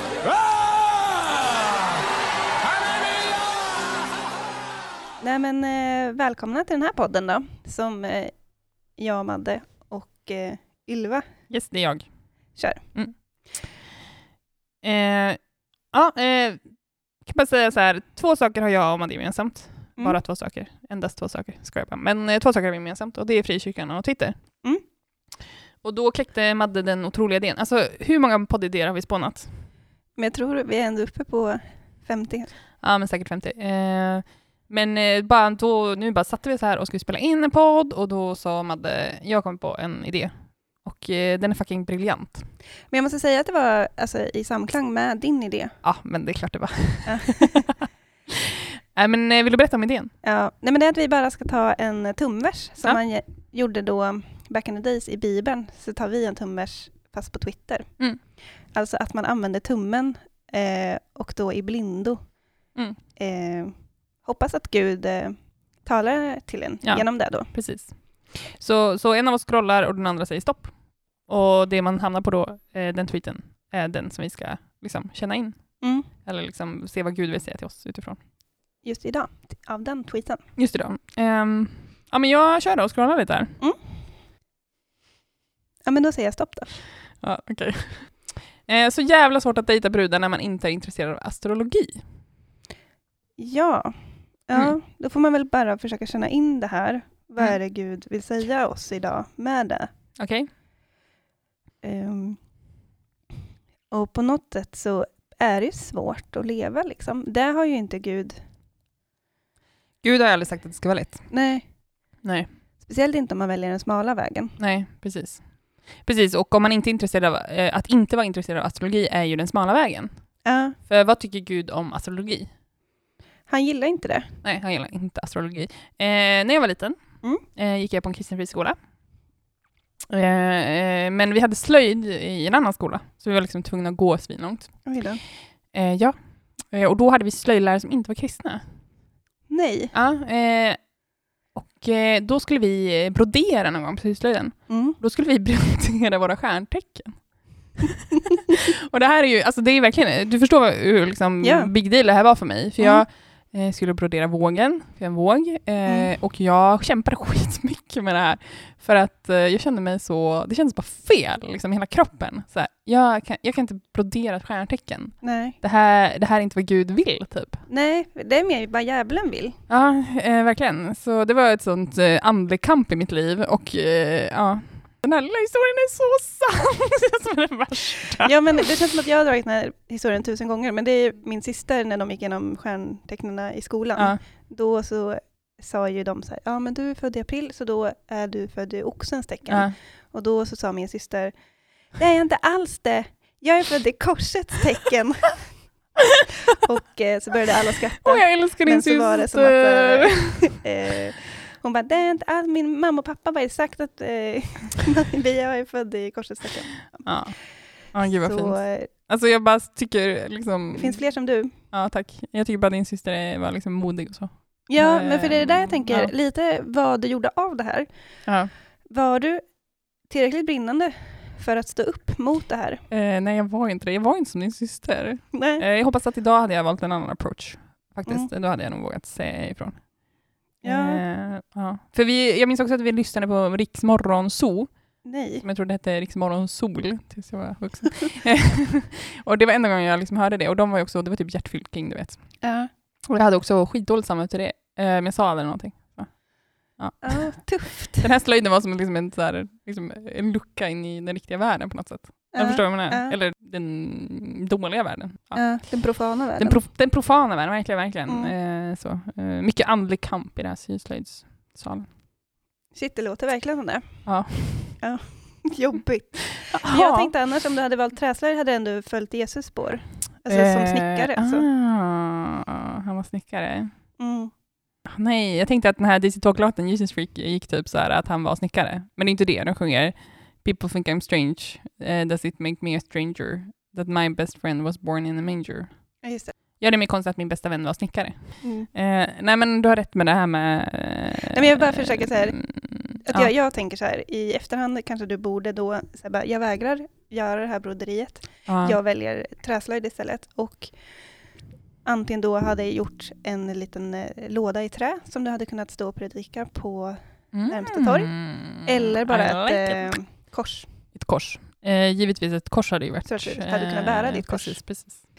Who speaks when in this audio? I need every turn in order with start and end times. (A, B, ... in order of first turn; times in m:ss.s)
0:05.2-0:11.4 A
0:11.5-0:13.2 B
0:12.5-0:12.9 A
0:14.8-0:24.4 B
0:25.8-0:29.5 B
0:30.1-0:32.5 A
0:32.8-0:42.4 B
0:42.9-0:45.7 A
0:45.8-0:47.7 B
0:47.0-0:47.6 A
0:49.0-0:50.1 B
0:50.2-1:02.4 A
1:03.2-1:07.5 A
1:06.8-1:18.2 B
1:15.8-1:16.1 A
1:18.8-1:20.4 A
1:20.6-1:23.5 B
1:25.8-1:26.8 A
1:27.2-1:32.0 B
1:33.4-1:39.9 A
1:40.2-1:40.5 B
1:41.8-1:42.4 A
1:43.9-1:48.4 A
1:50.0-1:51.4 B
1:51.3-1:51.7 A
1:52.2-1:52.5 B
1:52.8-1:54.6 A
1:54.6-2:02.5 B
2:00.4-2:00.8 A
2:03.5-2:04.3 A
2:04.4-2:08.8 B
2:10.1-2:15.1 B
2:14.8-2:15.2 A
2:15.7-2:18.6 B
2:19.5-2:19.9 A
2:19.9-2:20.9 B
2:21.5-2:27.9 B
2:24.7-2:25.0 A
2:28.5-2:47.6 B
2:31.4-2:31.7 A
2:32.8-2:33.0 A
2:35.8-2:36.1 A
2:45.2-2:45.6 A
2:47.7-2:49.6 A
2:49.7-2:58.6 B
2:58.2-3:15.6 A
3:09.5-3:09.8 B
3:16.6-3:27.4 A
3:18.0-3:20.6 B
3:27.0-3:36.1 B
3:27.9-3:28.9 A
3:30.7-3:31.6 A
3:34.7-3:42.8 A
3:38.2-3:38.5 B
3:42.9-4:02.5 B
3:45.3-3:45.6 A
3:48.0-3:48.3 A
3:50.6-3:51.0 A
3:55.0-3:55.4 A
4:02.4-4:02.7 A
4:03.1-4:21.9 B
4:07.0-4:08.1 A
4:12.3-4:13.2 A
4:15.3-4:16.6 A
4:18.1-4:18.4 A
4:22.7-4:31.5 A
4:24.1-4:24.8 B
4:26.5-4:27.1 B
4:30.3-4:33.8 B
4:34.0-4:34.3 A
4:34.9-4:53.3 B
4:46.0-4:46.4 A
4:48.4-4:48.7 A
4:51.3-5:10.7 A
4:58.5-4:58.8 B
5:07.3-5:10.2 B
5:10.9-5:15.0 B
5:13.1-5:14.9 A